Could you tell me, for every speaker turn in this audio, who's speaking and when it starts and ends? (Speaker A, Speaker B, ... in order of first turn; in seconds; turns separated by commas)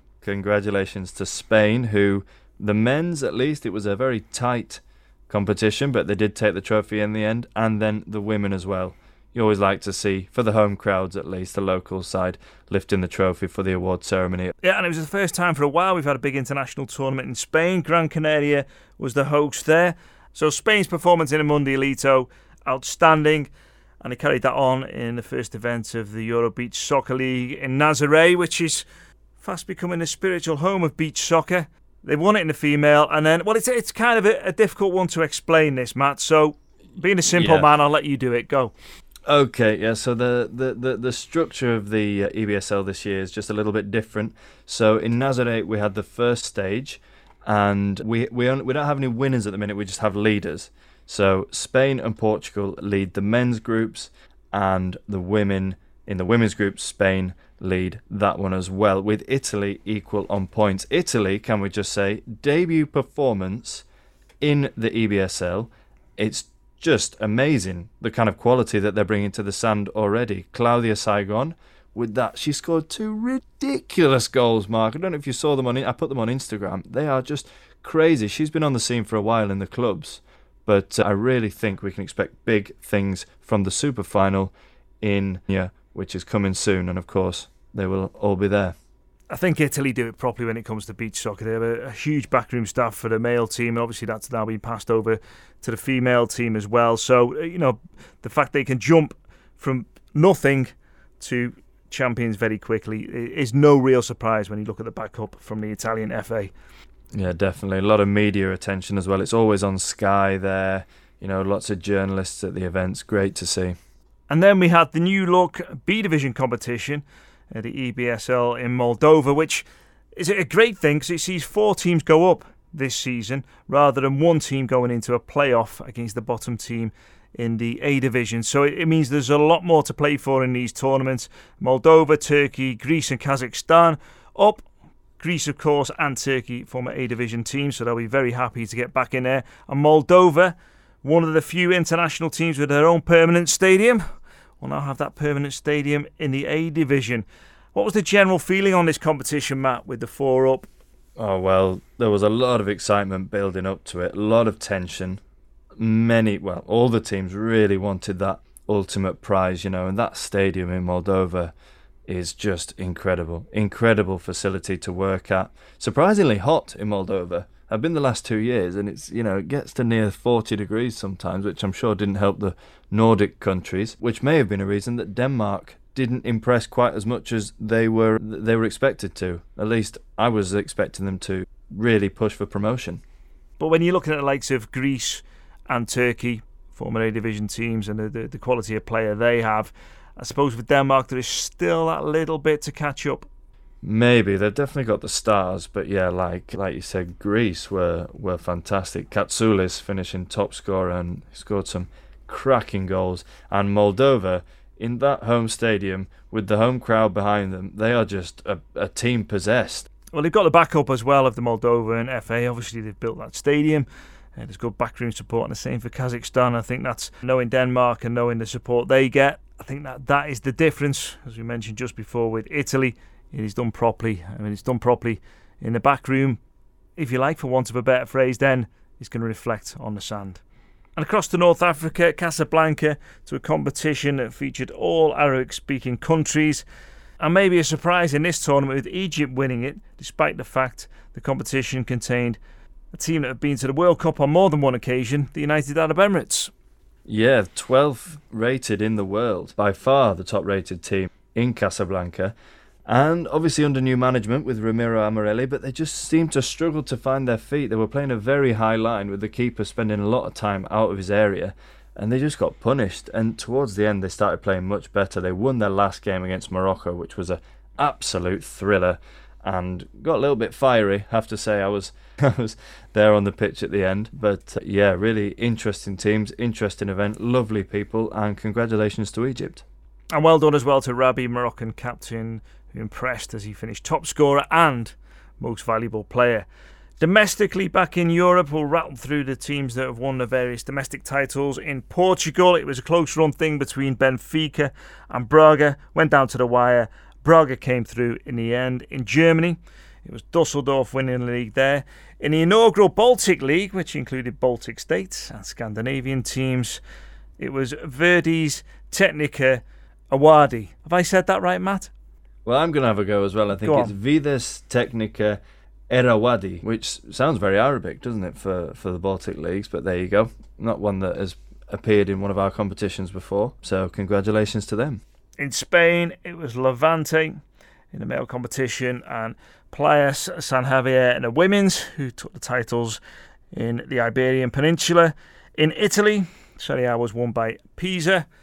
Speaker A: 0.2-14.5, Speaker B: 14.6-28.9, Speaker B: 29.4-38.7, Speaker A: 37.3-37.7, Speaker A: 39.3-63.9, Speaker A: 64.4-88.7, Speaker B: 89.3-106.5, Speaker A: 107.1-113.8, Speaker B: 114.3-134.6, Speaker B: 135.2-144.0, Speaker B: 144.6-150.7, Speaker A: 151.2-155.2, Speaker A: 155.8-161.5, Speaker A: 162.1-183.0, Speaker B: 183.6-193.3, Speaker A: 193.8-209.9, Speaker B: 210.1-226.4, Speaker B: 226.9-230.4, Speaker B: 230.9-236.7, Speaker B: 237.2-242.4, Speaker B: 242.9-246.5, Speaker A: 247.1-252.3, Speaker A: 252.9-279.6, Speaker B: 280.1-286.5, Speaker B: 287.0-306.8, Speaker B: 307.4-311.9, Speaker A: 312.4-325.0, Speaker B: 313.6-313.9, Speaker B: 325.4-333.0, Speaker B: 333.5-338.3